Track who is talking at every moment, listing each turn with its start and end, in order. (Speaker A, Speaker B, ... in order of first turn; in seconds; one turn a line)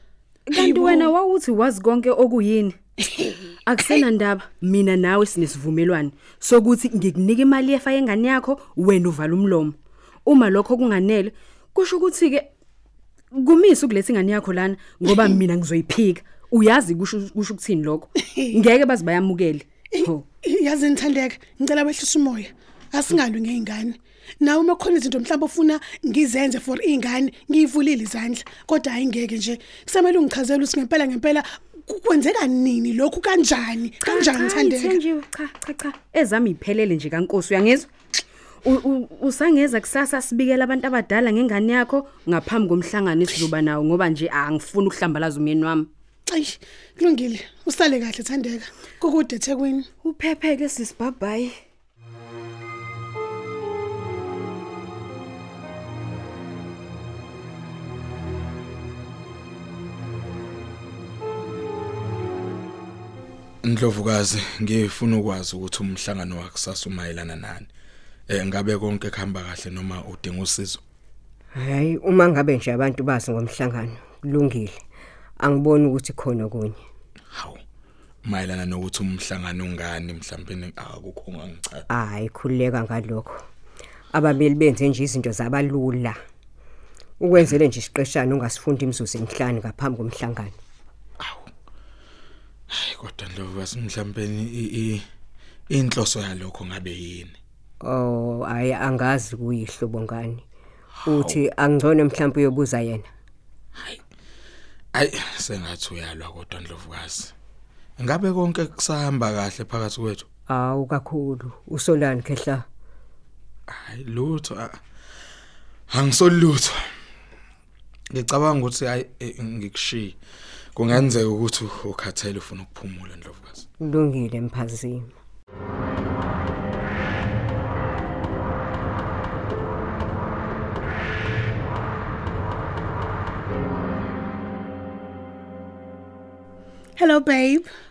Speaker A: 0.5-2.8
Speaker B: 0.5-1.1
Speaker B: 3.0-3.4
Speaker A: 3.6-12.5
Speaker A: 13.3-20.2
Speaker B: 15.1-15.3
Speaker B: 19.9-35.0
Speaker A: 34.0-37.9
Speaker A: 38.6-45.9
Speaker B: 46.3-49.9
Speaker A: 50.0-51.5
Speaker C: 63.6-67.7
Speaker C: 68.3-70.8
Speaker D: 71.5-74.8
Speaker D: 75.4-76.8
Speaker C: 77.3-77.6
Speaker C: 78.2-81.8
Speaker D: 81.9-83.3
Speaker D: 84.1-86.2
Speaker D: 87.2-90.5
Speaker C: 91.2-91.5
Speaker C: 92.7-95.0
Speaker C: 95.7-97.4
Speaker D: 97.8-100.4
Speaker C: 101.0-101.4
Speaker D: 101.1-103.1
Speaker C: 104.9-107.3
Speaker C: 108.0-110.3
Speaker D: 110.5-112.7
Speaker C: 113.7-114.8
Speaker C: 115.9-116.8
Speaker C: 118.1-120.2
Speaker C: 120.8-123.7
Speaker D: 123.8-125.1
Speaker B: 137.0-137.7